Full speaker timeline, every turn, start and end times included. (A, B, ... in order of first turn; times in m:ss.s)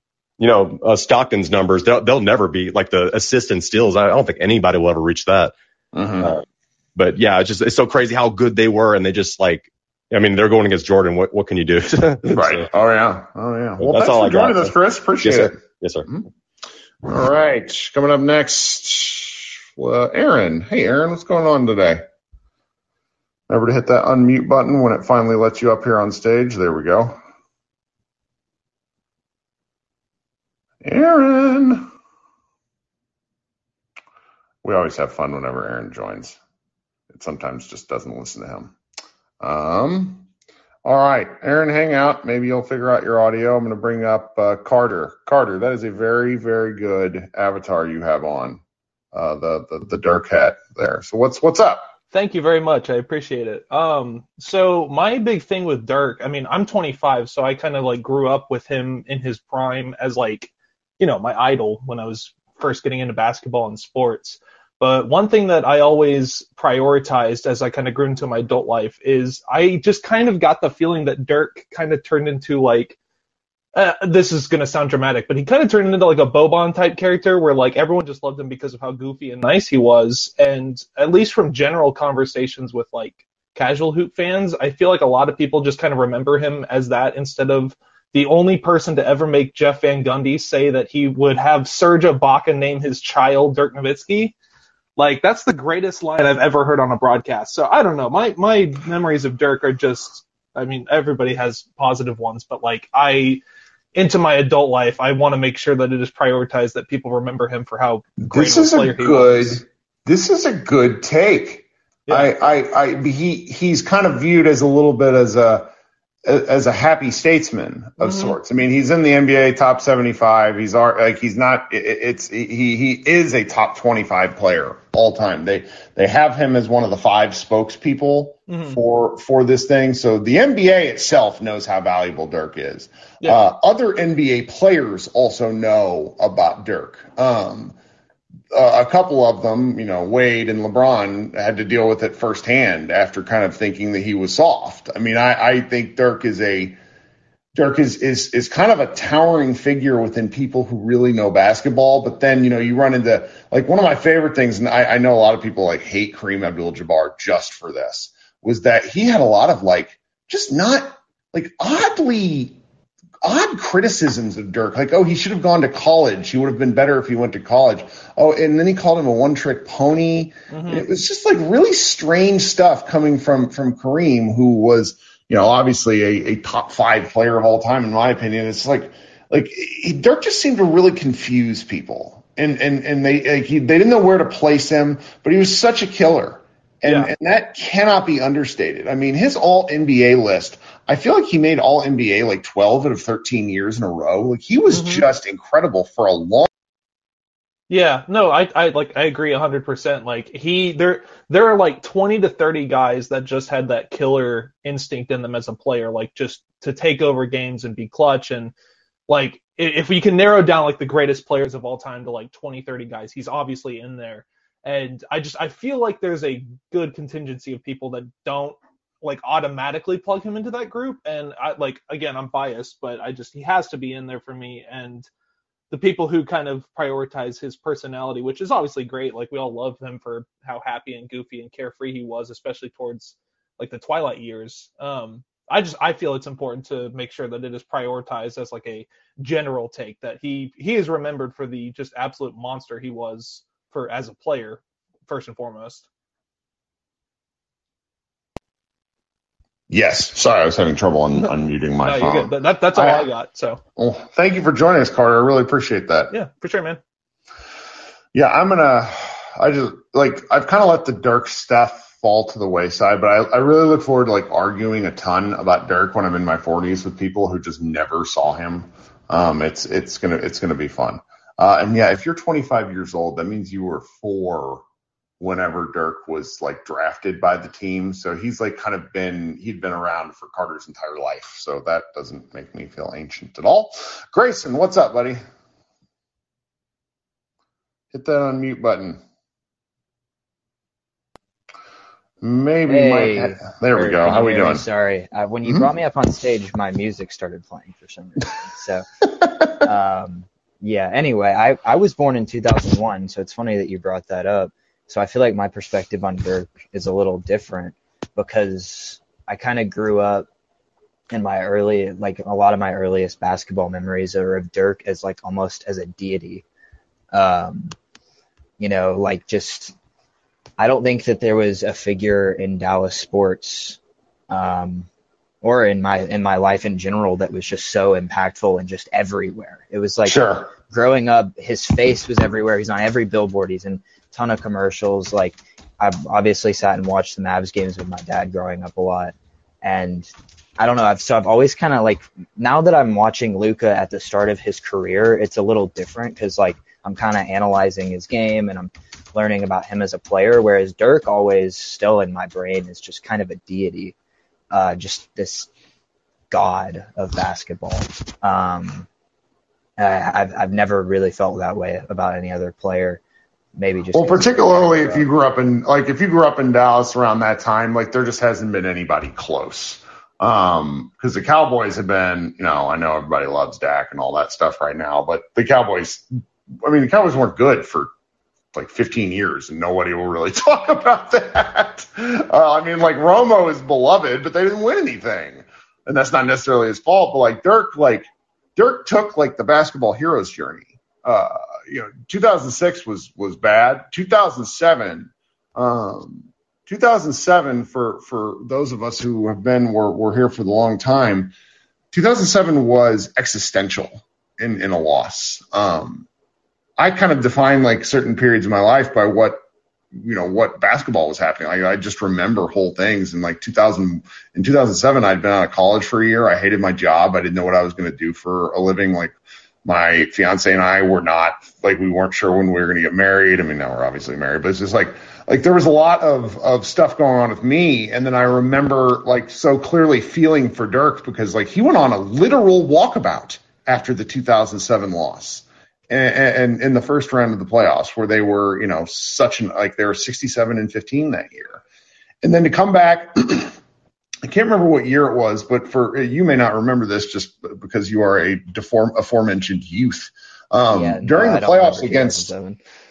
0:00.4-0:05.5 A
0:05.9-0:06.4 B
0:07.0-0:12.7 A
0:12.3-0:16.3 B
0:13.8-0:16.1 A
0:17.0-0:22.0 B
0:23.5-0:27.2 B
0:30.8-0:31.9 B
0:34.6-0:36.4 B
0:37.1-0:38.7 B
0:39.4-0:40.3 B
0:40.8-0:48.6 B
0:49.1-0:51.9 B
0:52.1-1:13.0 C
1:13.7-1:34.3 C
1:35.0-1:43.4 C
1:43.9-1:49.6 C
1:48.2-1:55.7 B
1:52.1-1:52.3 C
1:56.3-2:17.8 B
1:58.0-1:58.4 C
2:08.5-2:08.8 C
2:18.5-2:26.8 B
2:27.6-2:42.6 B
2:43.2-3:16.5 B
2:50.5-2:50.9 C
3:06.8-3:07.1 C
3:14.7-3:15.1 C
3:17.7-3:28.5 C
3:29.1-3:45.1 C
3:45.7-4:05.9 C
4:09.7-4:13.1 B
4:11.8-4:13.6 C
4:13.8-4:16.1 B
4:16.1-4:16.8 C
4:18.1-4:34.6 B
4:35.2-4:45.2 B
4:47.9-4:49.0 B
4:52.2-4:54.7 B
4:52.7-5:10.3 D
4:55.4-4:55.7 B
5:11.1-5:16.4 D
5:17.1-5:17.8 D
5:18.6-5:19.8 D
5:20.6-5:23.8 D
5:24.3-5:24.9 D
5:25.4-5:54.0 D
5:30.0-5:30.5 B
5:54.5-5:55.5 D
5:56.3-5:58.9 D
5:59.8-6:03.0 D
6:03.6-6:05.1 D
6:03.9-6:16.0 B
6:16.6-6:17.9 B
6:18.5-6:41.3 B
6:41.9-6:46.1 B
6:46.8-6:49.4 B
6:49.9-6:59.1 B
6:59.6-7:21.6 B
7:22.2-7:23.6 B
7:24.2-7:32.3 B
7:30.7-7:32.6 D